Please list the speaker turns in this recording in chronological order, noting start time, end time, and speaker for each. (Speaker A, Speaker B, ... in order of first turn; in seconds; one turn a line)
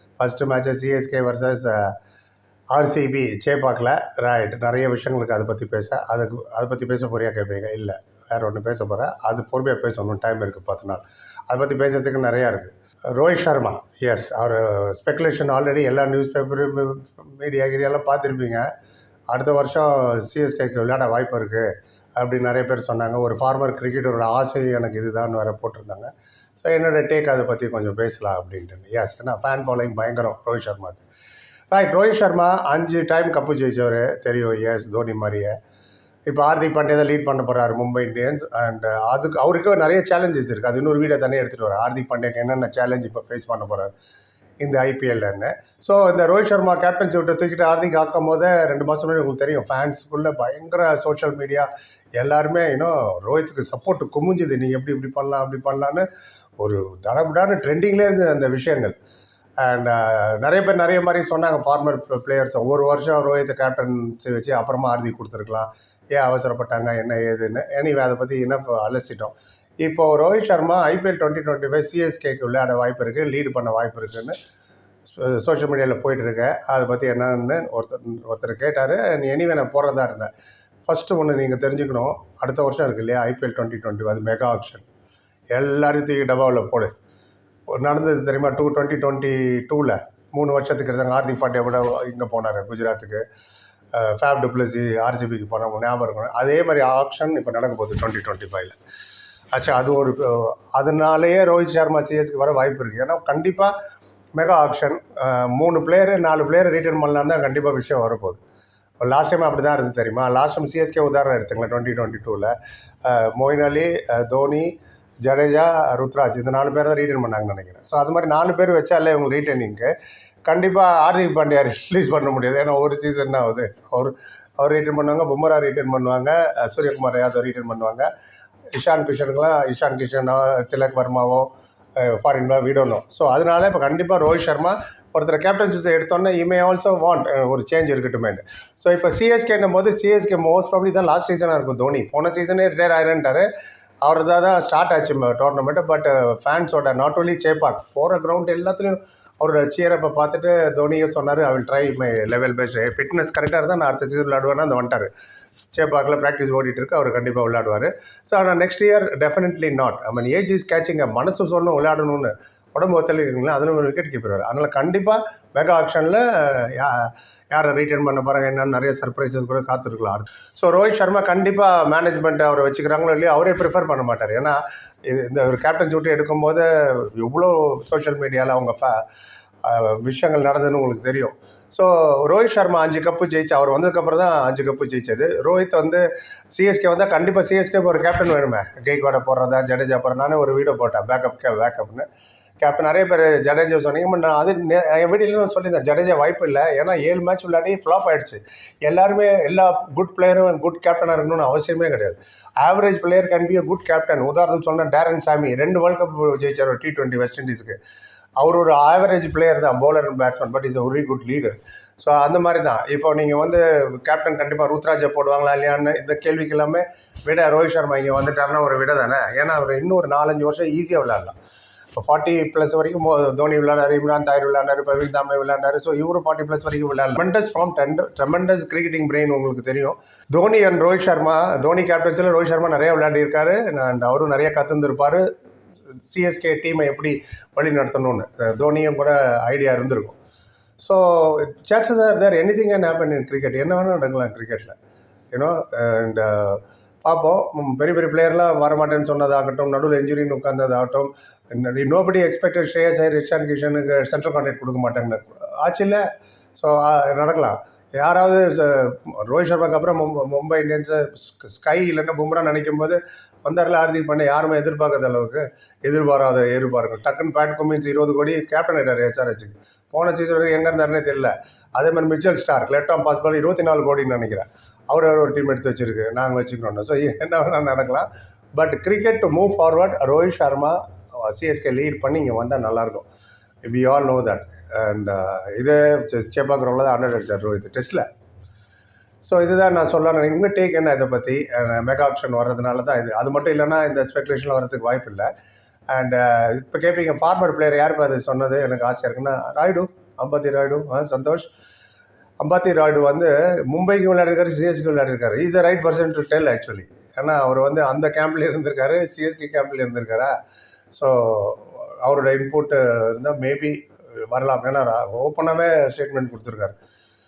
Speaker A: 0.2-1.9
Speaker A: 2.7-18.7
Speaker A: 19.3-31.0
Speaker A: 31.7-35.5
Speaker A: 36.3-43.9
Speaker A: 44.6-56.0
Speaker A: 56.6-58.9
Speaker A: 59.6-74.3
Speaker A: 75.1-80.3
Speaker A: 80.9-84.8
Speaker A: 85.5-86.9
Speaker A: 87.7-93.2
Speaker A: 93.9-98.8
Speaker A: 99.5-103.7
Speaker A: 104.3-108.4
Speaker A: 109.0-112.5
Speaker A: 113.0-119.9
Speaker A: 120.5-128.1
Speaker A: 128.7-143.5
Speaker A: 144.0-155.1
Speaker A: 155.7-179.0
Speaker A: 179.6-192.1
Speaker A: 192.6-207.8
Speaker A: 208.4-221.3
Speaker A: 221.9-235.2
Speaker A: 236.0-240.2
Speaker A: 240.8-244.8
Speaker A: 245.3-256.0
Speaker A: 256.6-283.1
Speaker A: 283.6-288.1
Speaker A: 289.2-295.3
Speaker A: 295.9-301.5
Speaker A: 302.4-310.3
Speaker A: 310.9-316.8